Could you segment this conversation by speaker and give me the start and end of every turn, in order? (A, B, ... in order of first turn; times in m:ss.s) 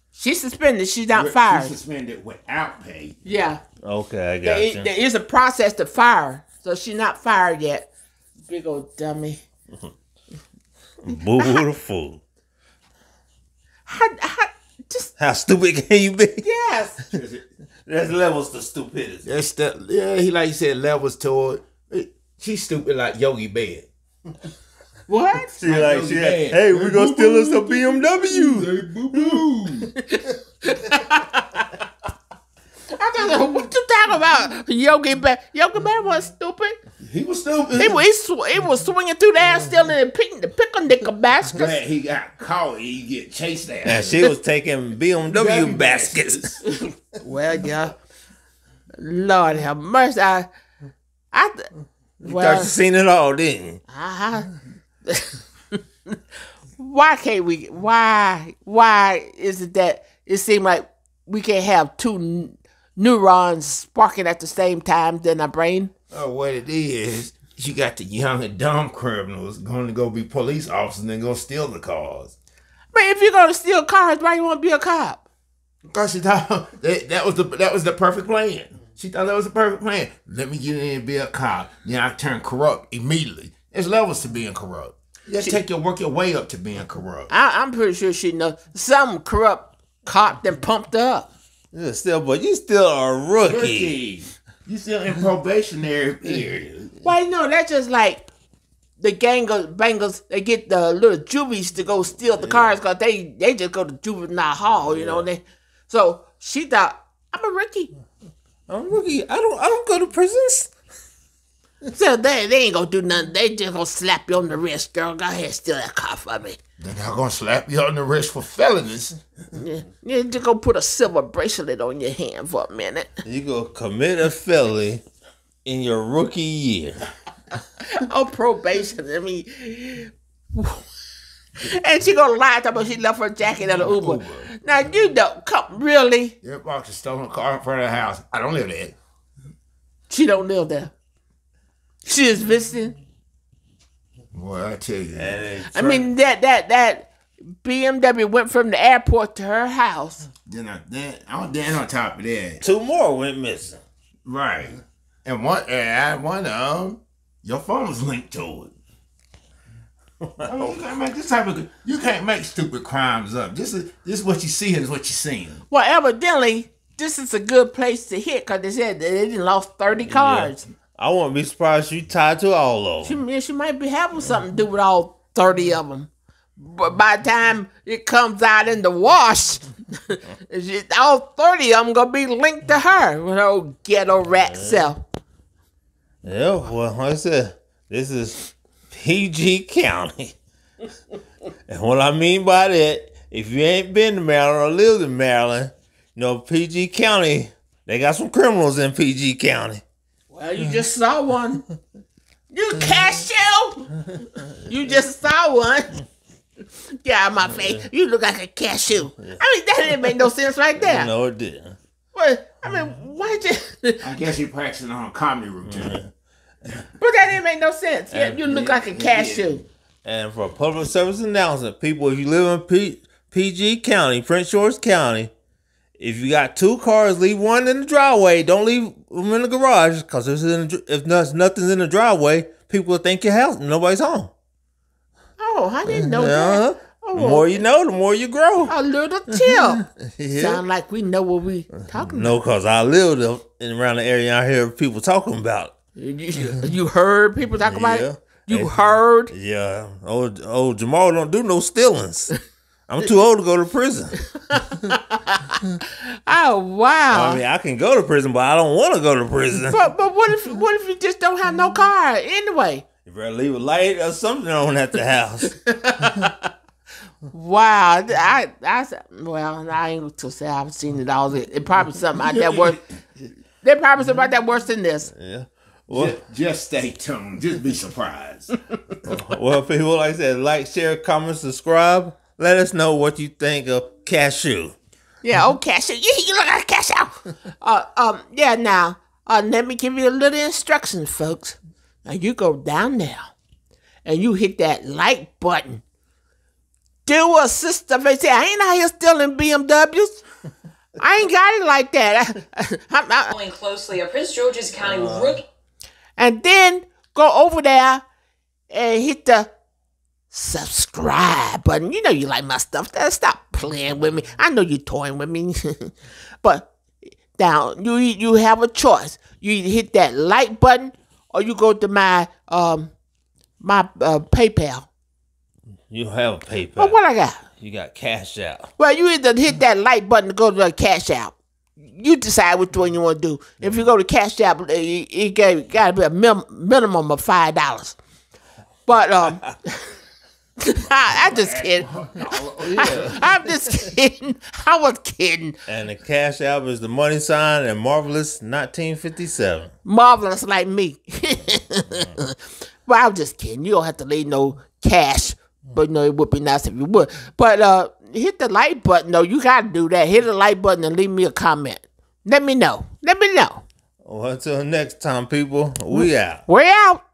0:00.1-0:01.7 A
0:01.1-0:03.2 B
0:03.2-0:03.6 A
0:03.8-0:04.9 C
0:04.4-0:07.9 A
0:08.5-0:09.4 A
0:11.0-0:12.2 C
0:13.8-0:15.1 A
0:15.2-0:16.5 C
0:16.4-0:17.0 A
0:17.1-0:17.4 B
0:17.8-0:19.3 C
0:19.2-0:23.9 B
0:25.1-0:25.6 A
0:25.6-0:29.4 C
0:25.6-0:29.9 B
0:30.1-0:31.7 A
0:33.0-0:36.8 A
0:37.0-0:38.0 B
0:37.8-0:41.7 A
0:41.5-0:44.2 B
0:43.8-0:46.6 C
0:45.2-0:46.6 B
0:46.6-0:47.9 A
0:49.0-0:50.5 A
0:51.3-0:51.6 A
0:52.2-0:53.8 C
0:52.2-0:52.7 A
0:53.9-0:54.5 A
0:55.0-0:55.4 A
0:56.8-1:05.9 A
1:06.1-1:12.3 B
1:12.9-1:15.2 A
1:15.9-1:27.3 B
1:27.3-1:31.3 A
1:31.7-1:33.9 C
1:33.4-1:36.9 B
1:37.0-1:38.2 A
1:39.0-1:47.9 A
1:42.4-1:42.8 C
1:44.8-1:45.3 C
1:48.7-1:50.7 C
1:51.9-1:56.6 A
1:56.8-1:59.2 B
1:59.5-2:03.1 A
2:03.2-2:05.0 C
2:05.6-2:07.0 C
2:08.0-2:10.8 A
2:11.6-2:16.4 A
2:13.8-2:14.5 B
2:16.4-2:19.0 B
2:20.1-2:20.9 A
2:22.0-2:23.0 A
2:24.3-2:25.4 B
2:25.2-2:26.1 C
2:25.7-2:30.3 A
2:30.4-2:32.6 B
2:32.6-2:33.8 C
2:34.2-2:38.7 B
2:40.2-2:40.8 C
2:40.4-2:45.6 B
2:45.7-2:50.6 A
2:50.0-2:53.2 C
2:53.0-3:05.0 A
3:04.3-3:04.8 C
3:06.2-3:10.4 C
3:11.7-3:19.8 C
3:20.3-3:21.6 A
3:22.5-3:26.0 A
3:27.0-3:31.1 A
3:27.4-3:27.9 C
3:29.2-3:30.2 C
3:30.8-3:31.8 C
3:32.1-3:34.1 A
3:34.0-3:36.0 B
3:35.6-3:36.1 C
3:37.0-3:39.6 A
3:38.1-3:38.4 C
3:38.4-3:39.6 B
3:40.0-3:45.3 C
3:46.0-3:54.3 C
3:55.4-3:57.6 A
3:55.8-3:58.8 C
3:58.7-4:02.4 A
3:59.3-4:00.6 C
4:01.9-4:05.7 C
4:06.0-4:09.3 A
4:07.6-4:08.8 C
4:09.3-4:12.3 C
4:12.9-4:14.2 C
4:14.4-4:15.6 A
4:16.2-4:17.4 A
4:17.1-4:19.8 C
4:19.7-4:22.8 A
4:23.0-4:25.5 C
4:25.6-4:26.5 A
4:27.3-4:32.8 A
4:32.2-4:32.9 B
4:33.6-4:35.1 A
4:35.1-4:36.1 C
4:35.9-4:38.5 B
4:39.0-4:44.8 C
4:45.2-4:53.3 A
4:54.0-4:55.8 A
4:57.0-5:00.2 A
5:01.0-5:03.3 A
5:03.3-5:05.4 D
5:04.8-5:05.3 C
5:06.2-5:08.0 A
5:08.7-5:09.5 A
5:10.3-5:16.7 A
5:17.3-5:22.9 A
5:23.6-5:24.9 A
5:25.9-5:28.7 C
5:26.8-5:27.4 A
5:28.8-5:38.0 A
5:33.6-5:33.9 C
5:38.9-5:40.0 A
5:40.6-5:45.6 A
5:40.9-5:43.2 B
5:42.9-5:43.5 C
5:45.6-5:49.7 C
5:49.8-6:03.6 A
6:04.0-6:06.4 C
6:05.9-6:07.0 A